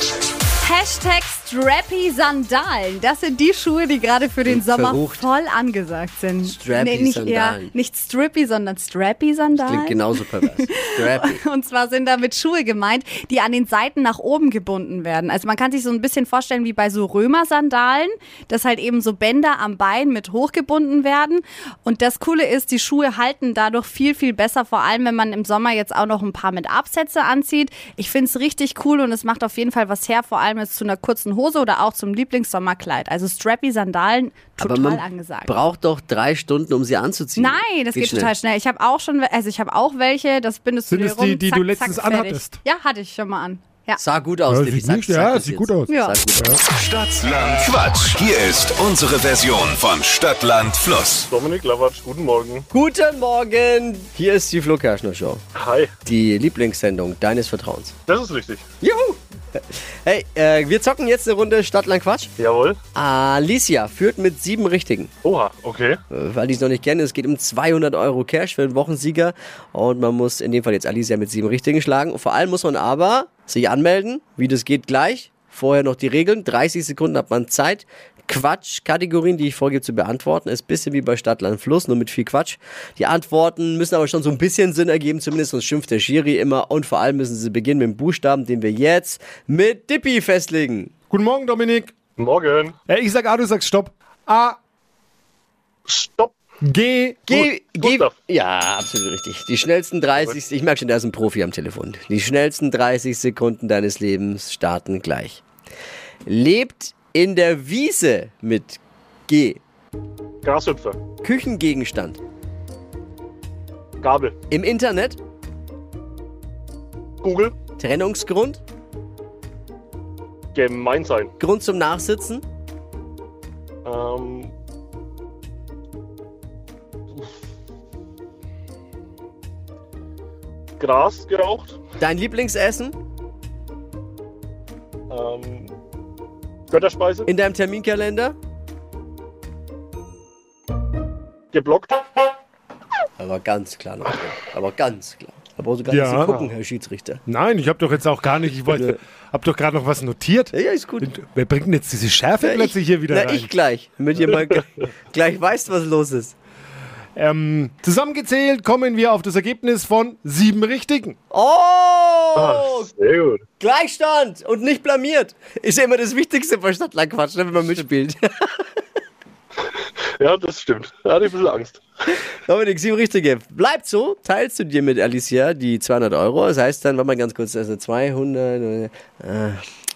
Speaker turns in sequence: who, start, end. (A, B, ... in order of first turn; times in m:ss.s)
0:00.6-0:35.6 A
0:04.5-0:05.3 B
0:06.4-0:07.7 B
0:09.5-0:11.4 B
0:34.6-0:38.3 B
0:37.4-0:44.0 A
0:40.9-0:42.6 C
0:44.0-0:46.6 B
0:44.5-0:46.6 C
0:45.9-0:46.2 A
0:46.8-0:51.3 D
0:51.3-0:52.7 E
0:52.7-0:55.4 B
0:55.6-0:55.9 E
0:56.0-0:58.0 B
0:58.1-0:58.6 E
0:58.8-0:59.2 B
0:59.7-1:02.3 B
1:02.4-1:02.8 E
1:03.0-1:05.1 B
1:05.2-1:06.0 E
1:06.1-1:30.9 B
1:31.1-1:32.0 C
1:32.2-1:32.7 E
1:32.9-1:34.6 C
1:35.9-1:36.3 E
1:36.6-1:37.7 C
1:37.3-1:45.4 B
1:37.8-1:38.1 E
1:46.3-1:49.6 B
1:50.4-1:51.0 E
1:51.2-1:52.2 B
1:54.0-1:54.3 E
1:54.5-1:55.2 B
1:57.2-1:57.5 E
1:57.8-1:58.6 B
2:00.5-2:01.3 E
2:01.4-2:02.4 B
2:03.9-2:04.5 E
2:10.8-2:11.8 E
2:12.0-2:13.0 B
2:15.1-2:15.7 E
2:16.7-2:17.3 E
2:17.3-2:18.4 B
2:21.5-2:22.0 E
2:23.2-2:27.2 B
2:25.9-2:26.4 C
2:27.3-2:33.5 C
2:28.7-2:29.0 B
2:30.5-2:31.1 B
2:32.4-2:36.4 B
2:37.2-2:41.2 C
2:41.3-2:42.9 B
2:42.4-2:43.4 E
2:43.6-2:48.5 B
2:50.2-2:51.8 E
2:52.2-2:59.6 B